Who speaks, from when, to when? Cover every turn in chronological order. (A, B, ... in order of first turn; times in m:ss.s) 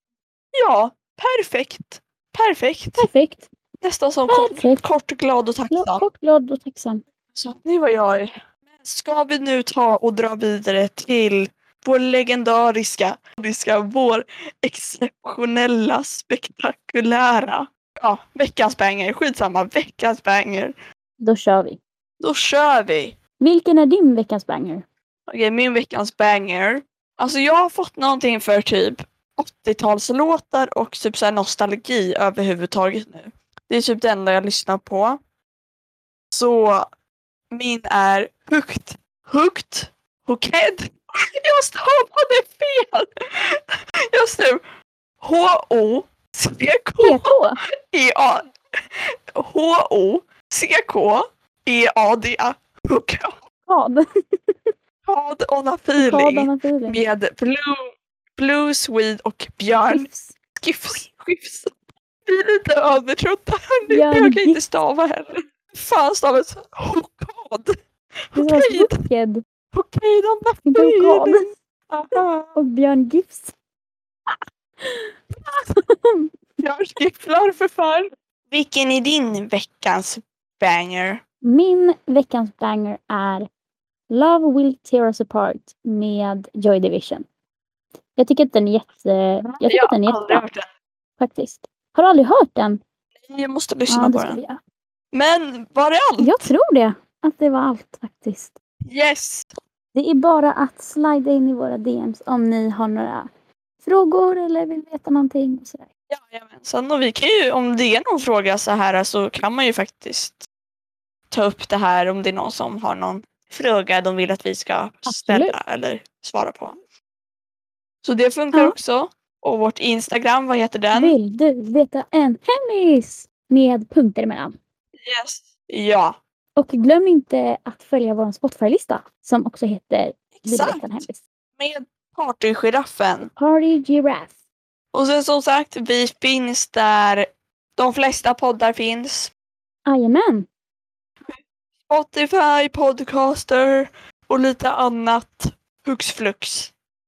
0:00.5-0:03.1 A
0:03.0-0:03.5 B
0:03.8-0:06.0 A
0:04.3-0:04.8 B
0:05.7-0:07.0 B
0:07.3-0:20.8 A
0:21.2-0:21.8 B
0:22.2-0:23.2 A
0:23.4-0:24.8 B
0:25.3-0:35.2 A
0:36.3-0:36.8 A
0:37.5-0:44.6 A
0:45.2-0:47.4 A
0:47.0-0:47.6 B
0:47.9-0:48.5 A
0:49.3-0:53.4 A
0:53.6-0:54.7 B
0:55.1-1:00.1 A
0:56.0-0:57.0 B
0:59.9-1:00.4 B
1:00.6-1:01.7 A
1:02.2-1:07.7 A
1:03.9-1:04.6 B
1:08.3-1:09.0 A
1:08.4-1:09.4 B
1:09.7-1:12.6 A
1:10.7-1:11.5 B
1:12.1-1:13.5 B
1:14.3-1:16.3 B
1:16.6-1:21.2 A
1:21.4-1:23.5 B
1:24.1-1:27.2 B
1:28.2-1:30.4 B
1:29.4-1:30.7 A
1:31.2-1:32.8 B
1:33.2-1:34.4 A
1:33.9-1:34.6 B
1:35.1-1:36.5 A
1:36.2-1:38.5 B
1:38.9-1:39.5 A
1:39.9-1:43.3 B
1:43.8-1:45.9 B
1:46.1-1:50.5 A
1:51.3-1:56.8 A
1:55.0-1:55.6 B
1:58.0-2:01.2 A
2:00.9-2:04.6 B
2:05.0-2:06.2 A
2:06.6-2:11.2 B
2:10.4-2:10.9 A
2:11.6-2:13.3 A
2:13.2-2:14.4 B
2:14.9-2:19.3 A
2:19.8-2:20.5 B
2:21.2-2:26.7 A